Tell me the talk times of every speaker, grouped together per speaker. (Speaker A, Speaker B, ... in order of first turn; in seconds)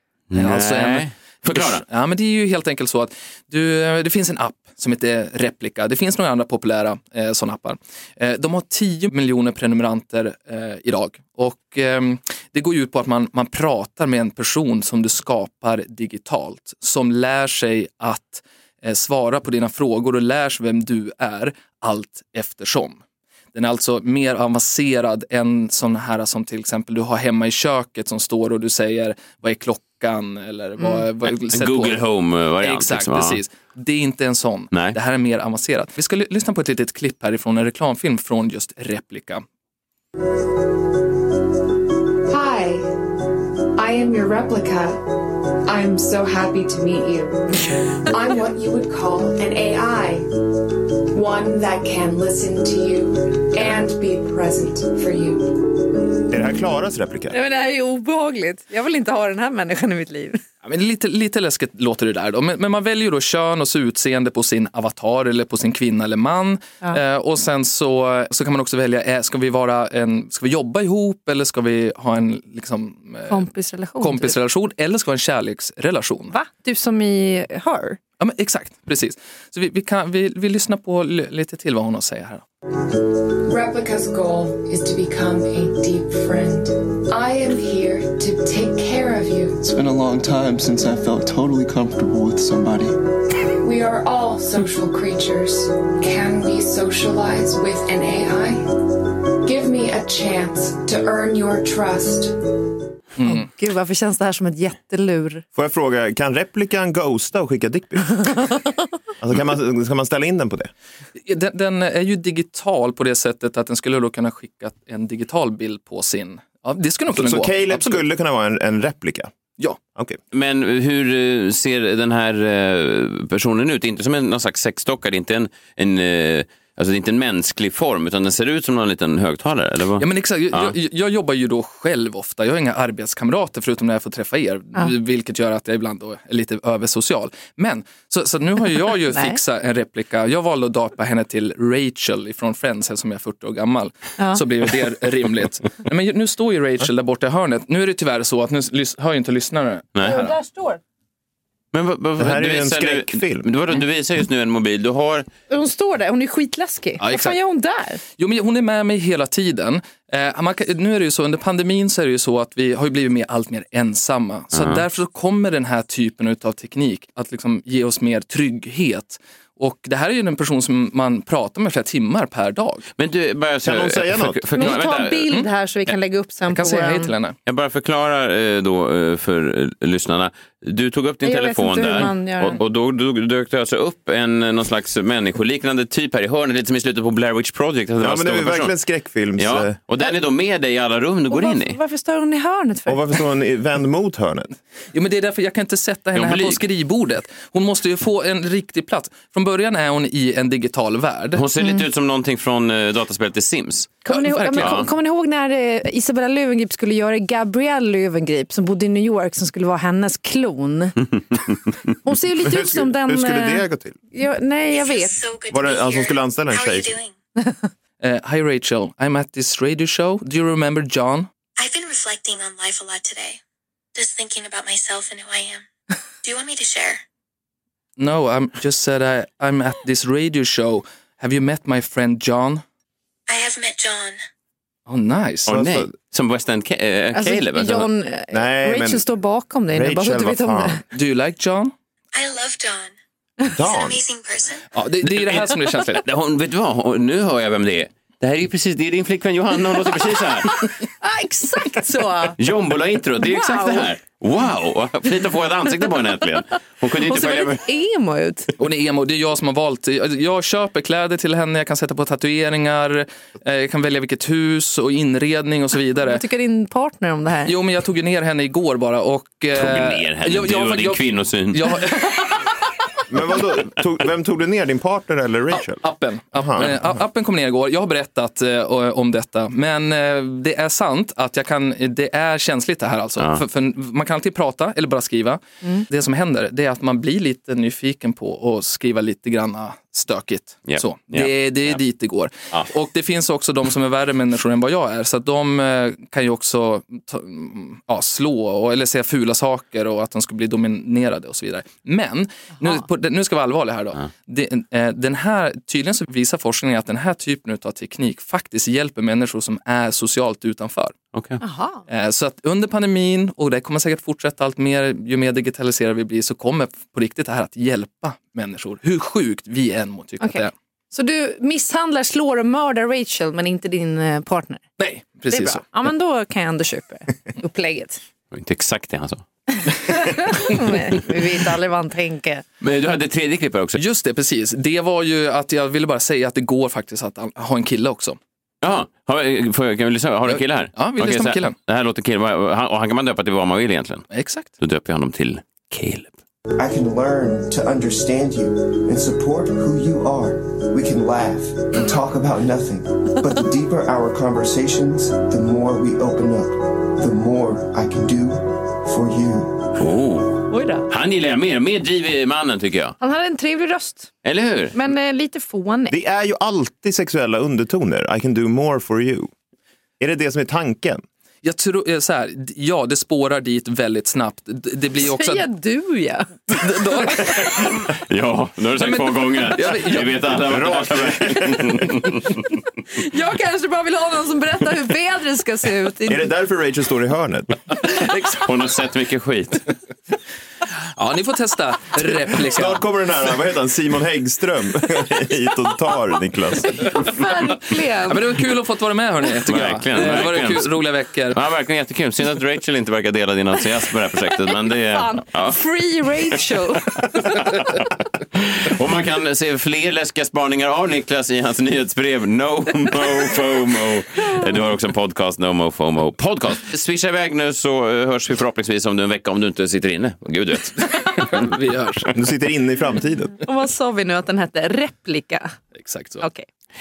Speaker A: 0.3-1.9, 31.3-33.4, 120.3-130.8, 151.7-155.3, 164.5-164.8, 173.0-175.3, 177.5-188.8, 189.3-191.8, 196.2-196.6, 201.3-204.0, 204.6-204.9, 235.5-237.9, 245.1-250.7, 252.4-257.6, 269.6-271.7, 290.7-291.7, 311.1-311.4, 328.3-329.2, 332.6-333.8, 338.6-346.1, 359.8-363.0, 364.2-364.8, 377.5-382.4, 387.8-389.7, 399.5-406.4, 407.1-421.4
Speaker B: 0.3-23.0, 23.5-32.1, 32.6-39.4, 60.6-73.5, 74.0-76.4, 78.2-82.5, 103.2-103.5, 111.2-118.0, 130.0-150.4, 157.0-157.4, 158.1-172.8, 174.6-175.5, 176.5-177.4, 194.9-201.4, 204.1-204.9, 218.0-221.3, 228.0-232.6, 234.9-235.6, 240.9-241.7, 244.7-246.0, 258.6-266.2, 267.5-272.5, 275.5-311.0, 311.9-320.5, 324.8-325.6, 333.8-338.2, 340.3-341.6, 344.1-344.5, 371.4-375.5, 376.5-377.8, 378.8-380.4, 390.9-392.8, 398.1-401.4, 421.1-422.1, 425.7-426.2
Speaker C: 42.3-43.0, 43.8-55.8, 83.0-89.7, 93.6-98.8, 99.4-102.6
Speaker D: 56.3-57.4, 105.5-108.5, 109.2-110.7, 117.1-119.3, 152.2-153.5, 173.6-174.5, 188.0-189.8, 192.9-194.5, 212.4-214.0, 215.5-217.0, 235.5-235.9, 238.3-239.1, 239.7-240.8, 243.5-244.0, 273.1-275.8, 276.4-276.9, 365.9-369.3, 370.0-371.0, 380.4-381.8, 386.1-387.6, 392.4-396.8, 422.1-423.4
Speaker E: 57.3-60.4, 73.3-74.3, 76.3-78.0, 103.2-105.4, 139.1-139.4, 144.2-144.4, 150.0-150.8, 155.5-158.0, 174.5-177.1, 181.2-182.6, 191.3-193.2, 204.0-211.1, 212.1-215.2, 217.4-217.7, 237.1-240.8, 251.0-252.4, 253.2-253.9, 257.0-258.5, 265.9-267.5, 311.4-311.8, 320.2-324.6, 325.3-328.0, 329.6-332.4, 360.5-360.9, 363.0-365.9, 375.0-376.3, 382.9-386.3, 396.8-398.2, 404.3-407.3, 423.4-425.6, 426.2-426.5
Speaker F: 89.6-93.0
Speaker G: 214.7-217.1, 221.6-223.4, 223.9-225.7, 226.2-227.0, 233.3-234.2, 242.1-242.9, 243.6-244.6
Speaker H: 346.5-359.7